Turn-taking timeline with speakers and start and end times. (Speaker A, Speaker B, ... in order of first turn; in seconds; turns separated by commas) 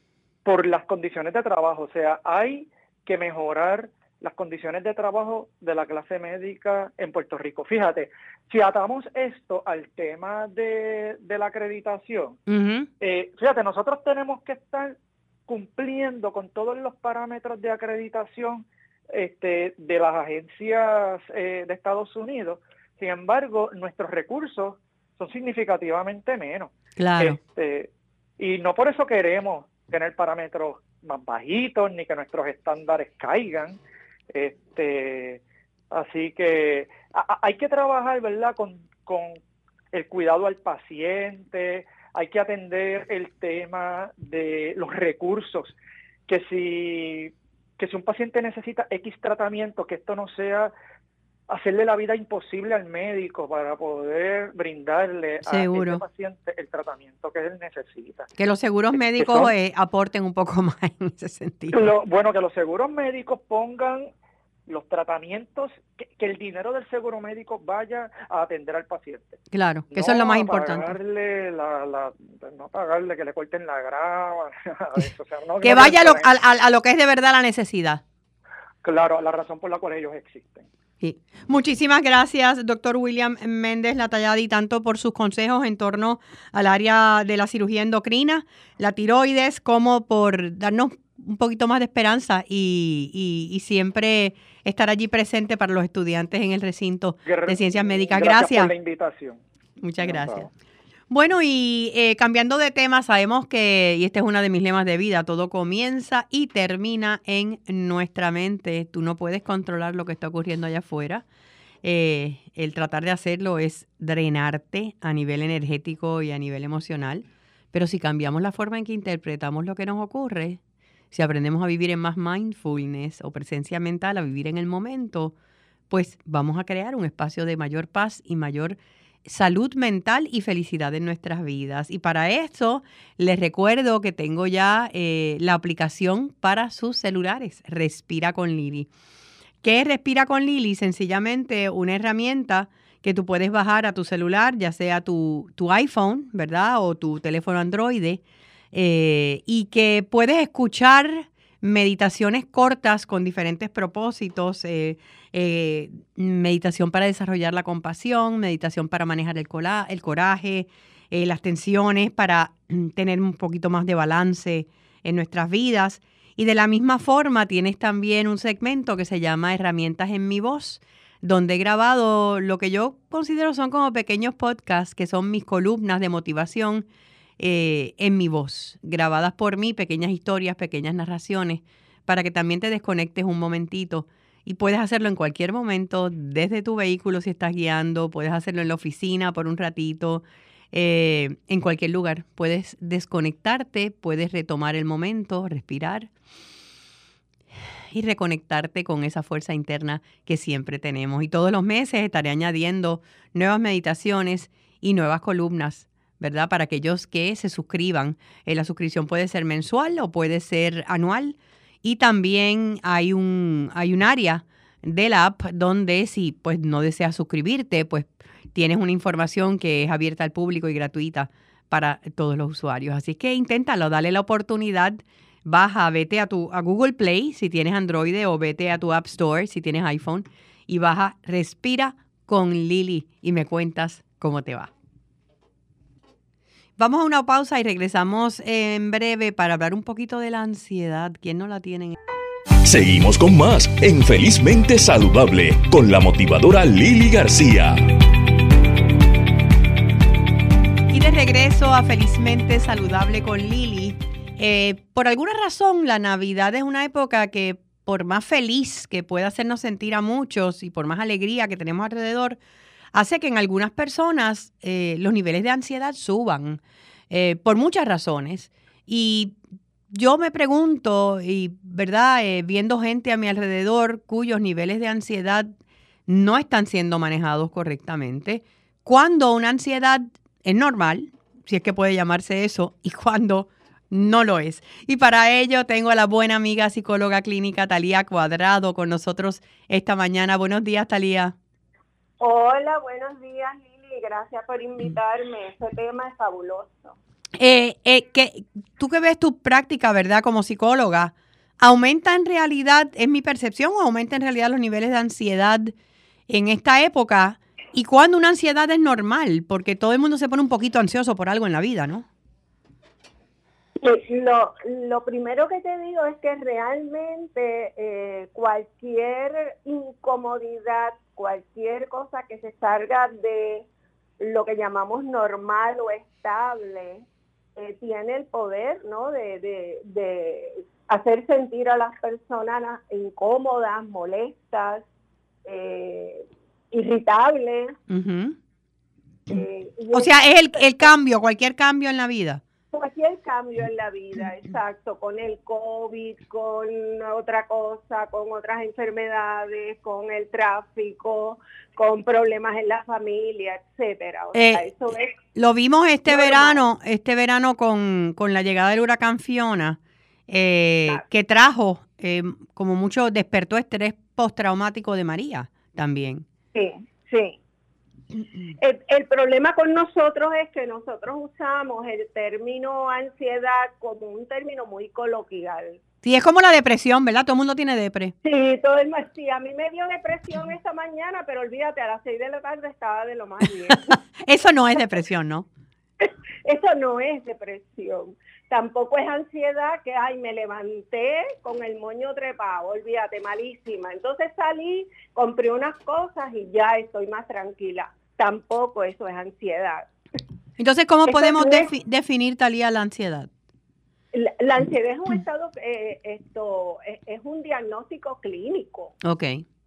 Speaker A: 0.5-12.4, Speaker B: 12.5-12.9, Speaker A: 13.0-15.0, Speaker A: 15.5-33.8, Speaker B: 27.0-27.4, Speaker A: 34.3-39.4, Speaker A: 39.9-45.8, Speaker A: 46.3-50.7, Speaker A: 51.5-58.3, Speaker B: 55.5-56.0, Speaker B: 58.4-61.8, Speaker A: 59.0-59.5, Speaker A: 61.7-64.1, Speaker A: 64.7-76.3, Speaker B: 69.5-70.9, Speaker B: 75.6-78.0, Speaker A: 78.8-80.7, Speaker B: 81.0-98.7, Speaker A: 97.2-99.4, Speaker B: 99.8-100.5, Speaker A: 100.0-100.5, Speaker B: 101.1-111.2, Speaker B: 111.8-120.6, Speaker B: 121.1-125.3, Speaker B: 125.9-138.9, Speaker B: 139.6-148.2, Speaker B: 148.7-176.8, Speaker B: 177.4-196.1, Speaker B: 197.9-234.7, Speaker B: 236.8-242.0, Speaker C: 242.7-247.8, Speaker B: 250.9-262.4, Speaker B: 262.9-269.4, Speaker B: 269.9-275.5, Speaker B: 276.1-291.4, Speaker D: 292.2-296.9, Speaker B: 297.4-305.7, Speaker B: 306.3-312.1, Speaker D: 313.8-323.7, Speaker D: 324.2-327.1, Speaker D: 327.6-334.8, Speaker D: 335.4-337.8, Speaker B: 337.9-338.4, Speaker D: 339.3-340.6, Speaker B: 339.9-342.4, Speaker D: 342.7-355.2, Speaker B: 354.3-354.7, Speaker B: 355.3-359.8, Speaker D: 356.1-356.6, Speaker B: 360.3-366.2, Speaker D: 366.5-367.4, Speaker D: 368.6-375.8, Speaker B: 376.0-378.1, Speaker D: 378.2-384.0, Speaker B: 384.3-385.5, Speaker D: 386.0-399.9, Speaker B: 400.6-403.3, Speaker D: 401.1-401.7, Speaker D: 404.1-408.9, Speaker B: 409.0-409.4